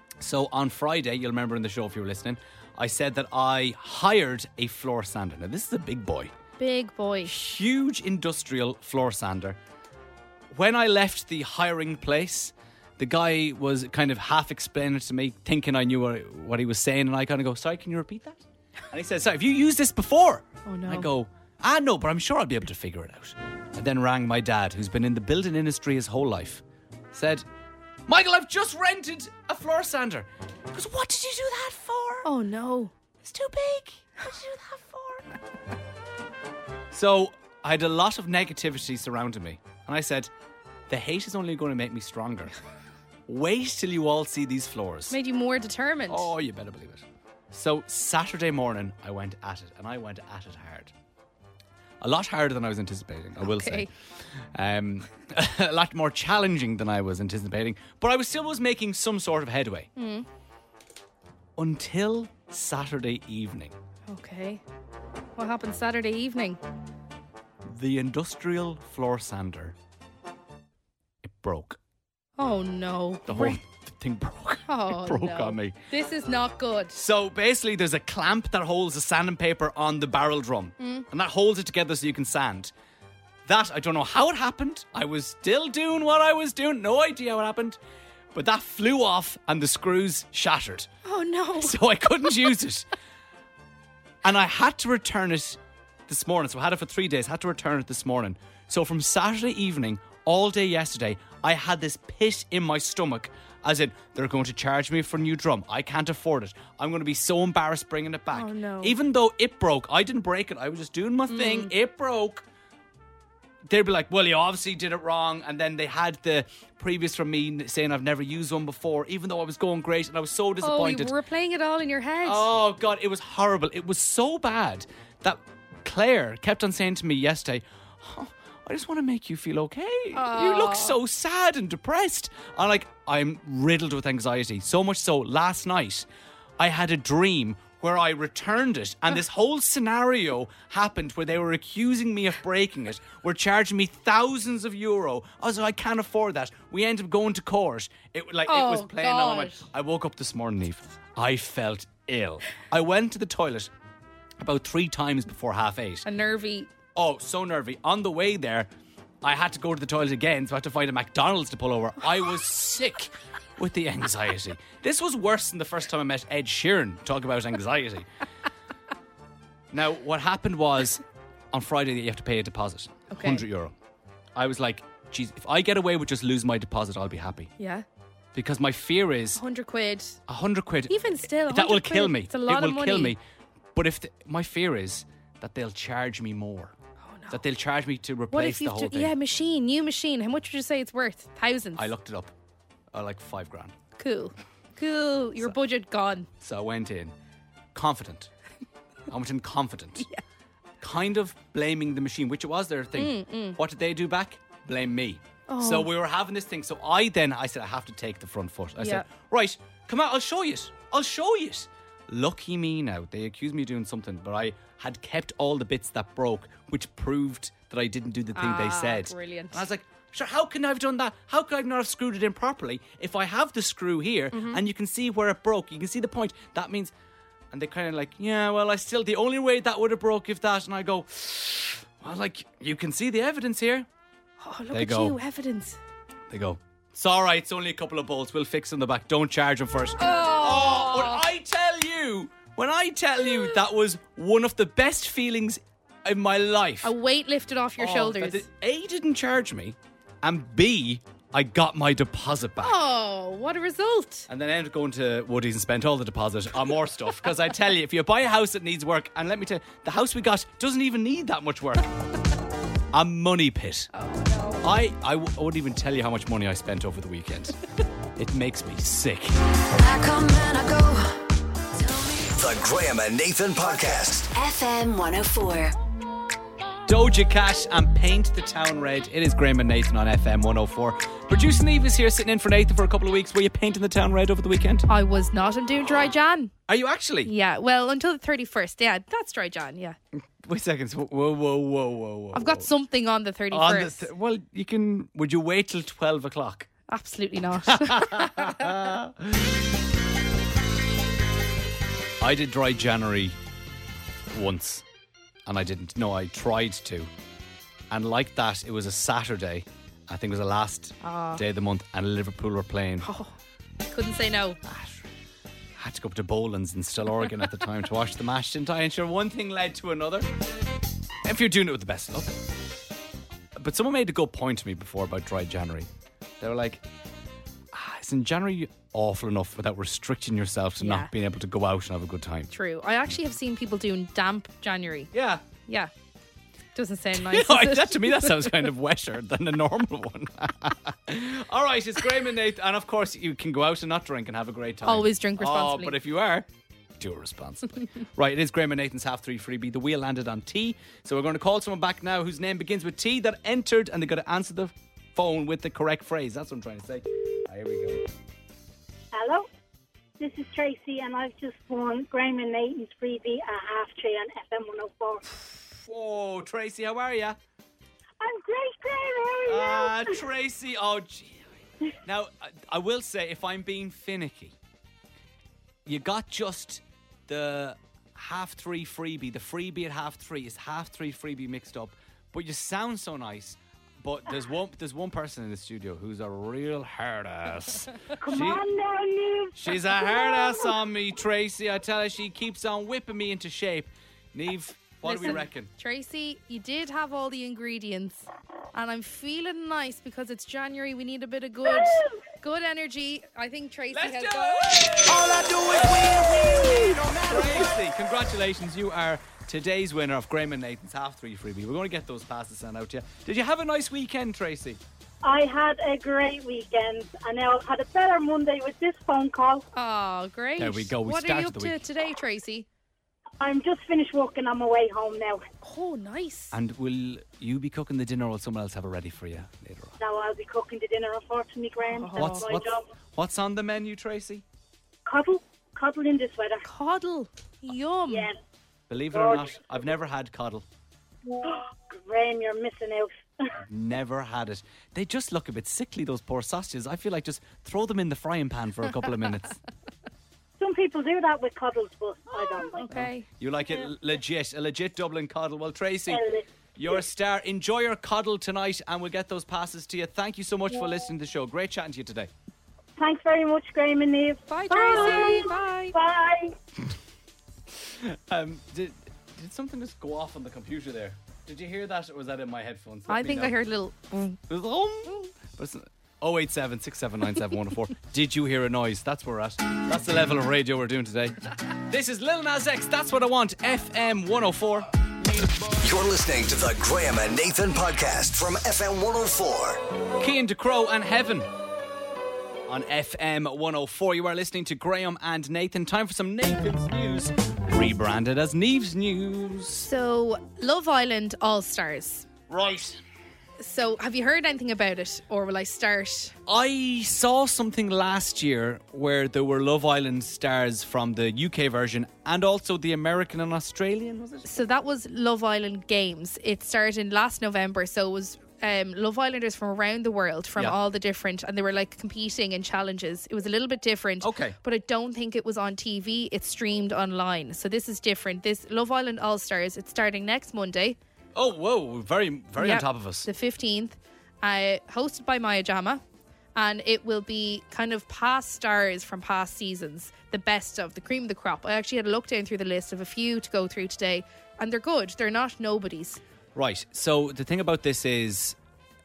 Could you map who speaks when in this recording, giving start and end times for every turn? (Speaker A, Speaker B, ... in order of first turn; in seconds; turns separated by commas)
Speaker A: 0.2-6.3, Speaker B: 6.6-7.4, Speaker A: 7.2-9.6, Speaker A: 10.5-27.4, Speaker B: 20.6-21.1, Speaker A: 28.1-32.3, Speaker B: 32.2-32.9, Speaker A: 33.2-35.2, Speaker A: 36.9-40.3, Speaker A: 40.9-42.5, Speaker A: 43.3-45.2, Speaker B: 45.1-46.3, Speaker A: 46.1-50.9, Speaker A: 52.0-53.9, Speaker B: 53.4-53.9, Speaker A: 54.5-59.9, Speaker B: 60.0-60.2, Speaker A: 61.6-63.7, Speaker B: 64.1-64.6, Speaker B: 65.4-66.6, Speaker A: 67.6-69.8, Speaker A: 71.2-71.8, Speaker B: 72.4-73.6, Speaker A: 73.3-75.8, Speaker B: 74.7-77.0, Speaker A: 76.9-82.7, Speaker B: 80.8-81.0, Speaker A: 83.5-87.8, Speaker A: 88.3-90.9, Speaker B: 91.0-91.8, Speaker A: 91.6-92.9, Speaker A: 94.2-112.4, Speaker B: 108.3-109.0, Speaker B: 111.3-111.7, Speaker A: 113.7-121.1, Speaker B: 120.6-122.5, Speaker A: 122.2-136.1, Speaker B: 130.1-131.0, Speaker A: 136.6-153.7, Speaker B: 148.4-149.6, Speaker A: 154.4-156.1, Speaker B: 156.0-156.7, Speaker A: 156.9-158.7, Speaker A: 159.2-168.1, Speaker A: 169.7-173.7, Speaker B: 173.1-173.4, Speaker A: 174.3-177.5, Speaker B: 177.6-177.8, Speaker A: 178.3-179.4, Speaker B: 179.3-180.2, Speaker A: 180.3-183.2, Speaker B: 180.9-183.2, Speaker A: 183.7-186.7, Speaker B: 187.0-187.4, Speaker A: 187.3-189.1, Speaker B: 188.3-191.9, Speaker A: 191.7-192.3, Speaker A: 192.9-193.7, Speaker B: 194.0-196.3, Speaker A: 196.4-197.1, Speaker A: 197.7-198.3, Speaker A: 199.1-200.1, Speaker A: 200.8-226.9, Speaker B: 202.9-203.6, Speaker B: 205.5-205.9, Speaker B: 208.8-209.1, Speaker B: 218.3-219.6, Speaker B: 224.3-224.6, Speaker A: 227.5-233.9, Speaker B: 234.4-235.8, Speaker A: 234.7-235.2, Speaker A: 236.3-246.9, Speaker B: 240.0-241.2, Speaker B: 246.8-248.4, Speaker A: 247.8-252.8, Speaker B: 252.6-254.3, Speaker A: 254.3-261.9, Speaker A: 262.9-263.9, Speaker B: 263.9-264.6, Speaker A: 264.6-267.6, Speaker A: 268.1-269.4, Speaker C: 269.7-272.3, Speaker D: 272.3-274.3, Speaker C: 274.3-275.7, Speaker A: 276.9-284.9, Speaker B: 284.9-286.5, Speaker A: 286.7-287.3, Speaker B: 287.2-290.0, Speaker A: 290.2-292.7, Speaker B: 292.3-294.1, Speaker A: 293.5-296.7, Speaker B: 296.9-298.7, Speaker A: 297.6-299.5, Speaker A: 302.2-303.4, Speaker A: 304.3-304.8, Speaker A: 305.4-307.1, Speaker A: 307.9-313.1, Speaker B: 311.0-311.4, Speaker B: 313.0-313.3, Speaker B: 313.9-314.6, Speaker A: 314.6-315.1, Speaker A: 315.8-320.3, Speaker A: 321.2-322.4, Speaker A: 323.6-325.9, Speaker A: 326.4-326.8, Speaker A: 327.7-332.5, Speaker B: 330.8-331.1, Speaker B: 332.5-335.1, Speaker A: 335.1-335.4, Speaker B: 336.7-338.6, Speaker A: 337.1-346.5, Speaker B: 344.8-346.0, Speaker A: 347.0-358.1, Speaker E: 359.1-359.5, Speaker E: 360.2-365.3, Speaker A: 365.7-367.4, Speaker E: 368.2-370.1, Speaker A: 369.4-371.4, Speaker A: 372.0-374.5, Speaker A: 375.8-388.6, Speaker E: 388.2-390.6, Speaker A: 389.6-395.7, Speaker B: 395.0-405.0, Speaker E: 401.8-402.1, Speaker A: 403.9-414.8, Speaker E: 415.2-419.6, Speaker B: 419.7-422.6, Speaker A: 420.6-421.8, Speaker E: 423.4-425.4, Speaker B: 425.6-426.5, Speaker A: 426.5-430.0, Speaker E: 430.0-432.8, Speaker B: 431.9-432.5, Speaker A: 432.1-434.4, Speaker E: 435.1-436.6, Speaker B: 436.6-438.3, Speaker E: 438.1-438.3, Speaker A: 438.9-440.6, Speaker E: 439.1-439.6, Speaker E: 441.4-443.5, Speaker A: 443.6-449.6, Speaker E: 450.6-452.9, Speaker B: 452.7-453.3, Speaker A: 452.9-462.3, Speaker E: 456.1-456.4, Speaker E: 463.0-466.6, Speaker B: 464.5-465.9, Speaker A: 467.8-473.5, Speaker B: 473.1-474.4, Speaker A: 474.5-484.9, Speaker D: 485.7-489.8, Speaker A: 490.2-491.5, Speaker A: 492.7-499.9, Speaker B: 499.8-502.3, Speaker A: 502.5-503.0, Speaker B: 503.6-506.3, Speaker A: 506.5-514.5, Speaker B: 514.4-531.0, Speaker A: 524.2-524.5, Speaker A: 531.3-533.3, Speaker B: 532.6-536.0, Speaker B: 536.5-546.2, Speaker A: 546.5-548.6